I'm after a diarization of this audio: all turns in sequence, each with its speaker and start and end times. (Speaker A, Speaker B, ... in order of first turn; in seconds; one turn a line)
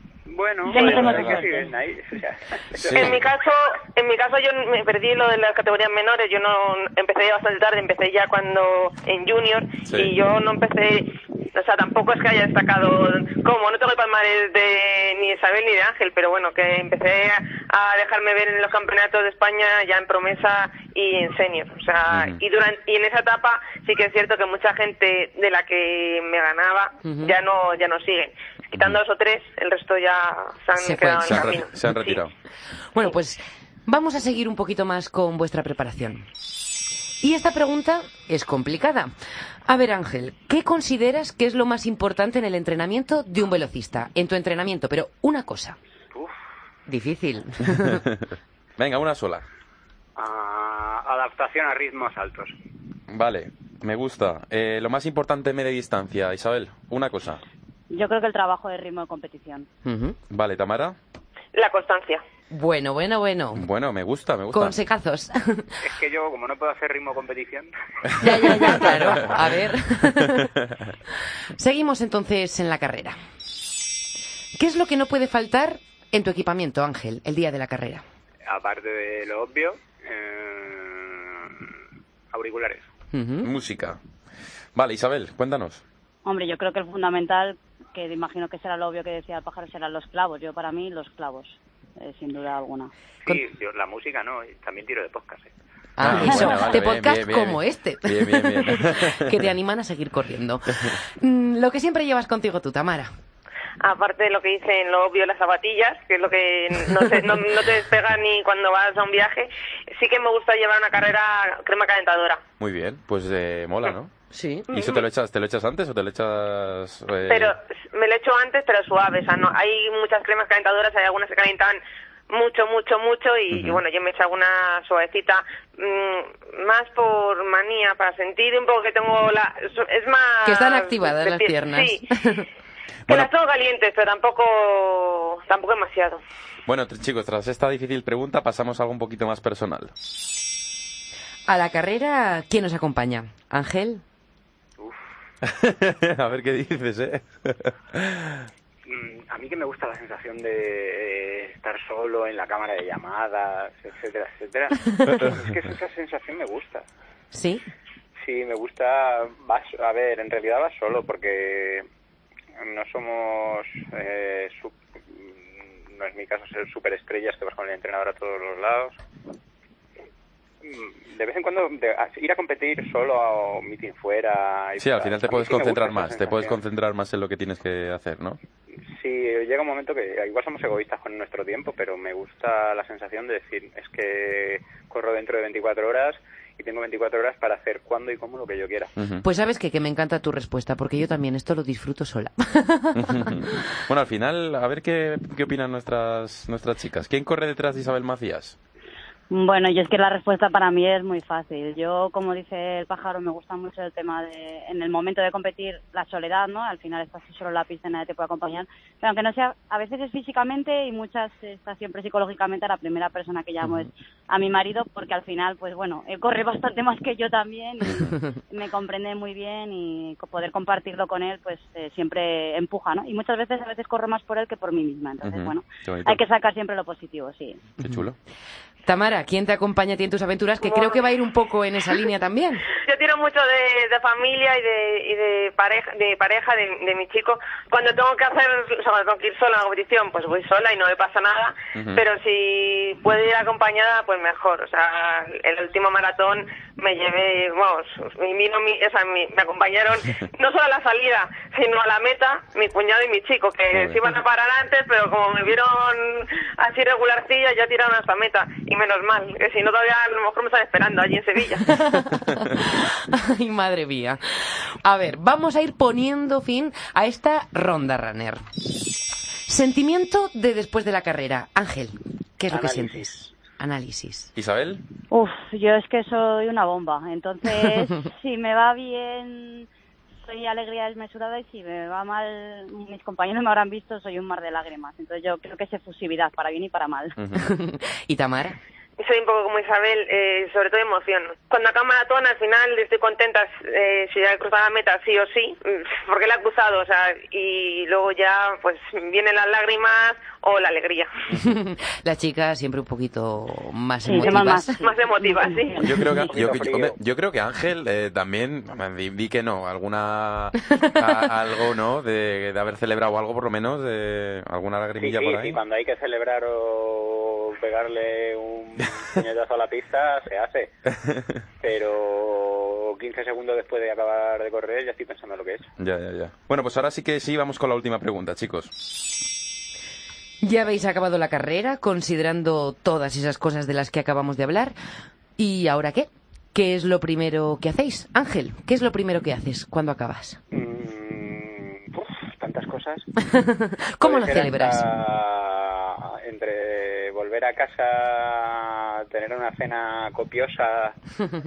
Speaker A: 0.3-3.2
Speaker B: 0.7-1.1
Speaker C: 0.7-1.4
Speaker D: 1.0-1.3
Speaker D: 2.8-3.2
Speaker B: 2.9-32.2
Speaker D: 22.1-22.4
Speaker E: 27.0-27.3
Speaker E: 30.8-31.6
Speaker D: 31.2-32.3
Speaker E: 32.9-36.3
Speaker E: 37.2-39.1
Speaker E: 39.6-45.8
Speaker E: 46.9-48.0
Speaker D: 47.9-48.2
Speaker D: 48.8-49.5
Speaker A: 50.1-52.5
Speaker D: 53.1-57.4
Speaker C: 57.9-59.7
Speaker E: 59.8-60.2
Speaker D: 60.3-61.0
Speaker B: 61.5-62.2
Speaker E: 62.5-63.6
Speaker D: 63.5-64.8
Speaker E: 64.5-65.7
Speaker A: 65.8-68.9
Speaker D: 68.1-69.3
Speaker E: 68.2-70.5
Speaker D: 70.4-70.9
Speaker E: 71.6-73.2
Speaker E: 74.6-78.0
Speaker A: 78.5-81.7
Speaker A: 82.3-82.9
Speaker E: 83.1-83.5
Speaker D: 83.4-84.0
Speaker D: 84.7-85.8
Speaker C: 86.2-92.9
Speaker A: 93.2-95.5
Speaker E: 96.0-103.1
Speaker D: 96.0-99.3
Speaker C: 96.2-96.6
Speaker B: 103.8-112.4
Speaker D: 112.6-114.1
Speaker E: 114.3-114.7
Speaker D: 114.7-117.5
Speaker B: 117.3-132.0
Speaker D: 123.5-123.8
Speaker E: 130.4-132.5
Speaker B: 133.1-136.2
Speaker D: 136.7-139.9
Speaker E: 141.5-144.0
Speaker D: 145.4-148.5
Speaker A: 148.8-156.8
Speaker E: 157.3-157.6
Speaker A: 158.2-161.8
Speaker A: 162.6-168.9
Speaker A: 170.6-176.6
Speaker D: 174.8-178.4
Speaker A: 178.9-188.9
Speaker D: 189.0-189.2
Speaker E: 189.2-193.6
Speaker D: 192.9-198.6
Speaker C: 199.3-227.6
Speaker D: 225.2-226.2
Speaker D: 227.8-228.2
Speaker E: 228.8-232.7
Speaker B: 230.7-231.0
Speaker B: 232.8-261.7
Speaker D: 241.7-242.0
Speaker D: 253.7-254.0
Speaker E: 261.7-268.4
Speaker E: 269.4-274.3
Speaker A: 272.5-273.0
Speaker D: 274.4-274.8
Speaker C: 275.1-279.7
Speaker C: 280.2-287.1
Speaker D: 287.2-287.5
Speaker E: 287.4-288.6
Speaker B: 289.0-301.1
Speaker E: 301.4-304.9
Speaker C: 304.0-306.1
Speaker B: 304.3-306.0
Speaker D: 305.8-315.6
Speaker A: 306.2-307.0
Speaker A: 315.0-320.7
Speaker D: 321.0-321.4
Speaker A: 321.6-325.7
Speaker D: 325.8-328.7
Speaker E: 330.4-334.7
Speaker E: 335.4-340.4
Speaker A: 340.5-343.1
Speaker E: 343.3-344.8
Speaker A: 344.0-350.9